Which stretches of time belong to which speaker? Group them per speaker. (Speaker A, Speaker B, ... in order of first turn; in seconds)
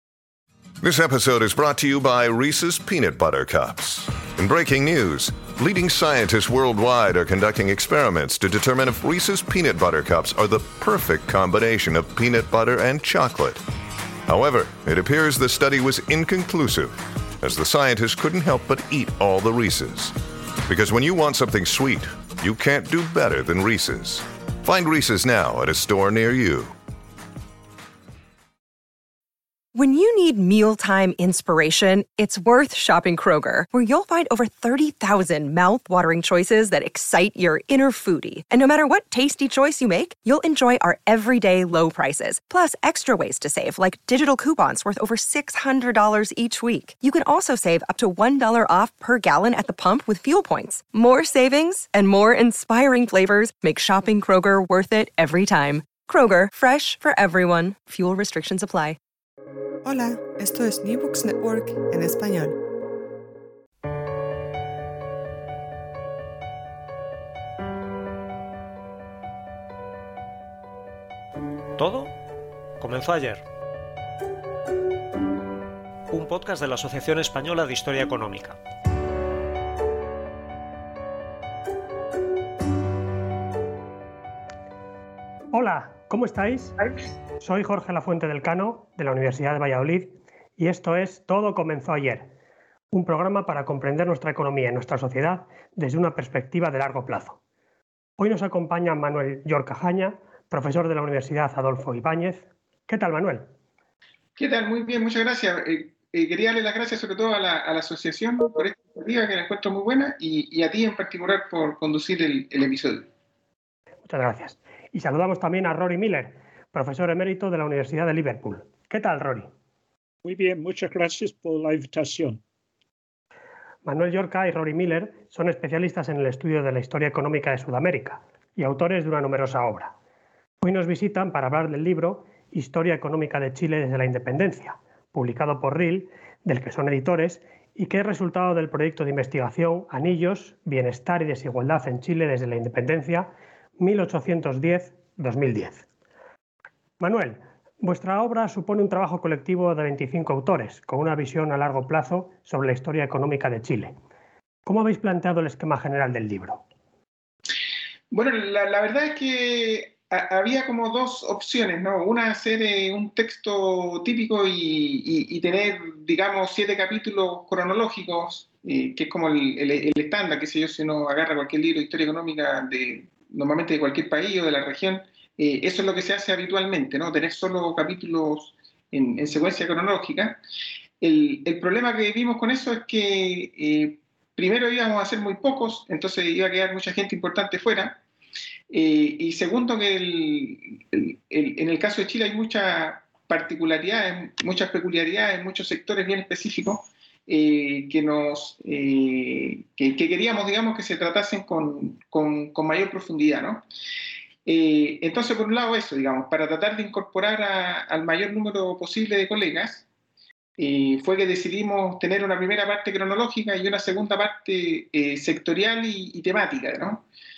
Speaker A: 0.8-13.6, 14.2-26.7
Speaker B: 29.7-59.0
Speaker C: 59.8-62.5
Speaker D: 71.8-72.1, 72.8-73.4, 76.1-78.6
Speaker E: 85.5-86.7, 87.4-92.3, 92.9-97.4, 98.2-103.5, 114.0-119.5, 123.8-129.9, 130.6-143.3, 143.8-145.8, 147.0-153.9, 154.7-156.6
Speaker F: 104.4-113.1, 158.1-180.4, 181.0-188.0, 188.7-203.6, 204.4-209.9, 210.6-217.0
Speaker G: 120.2-122.4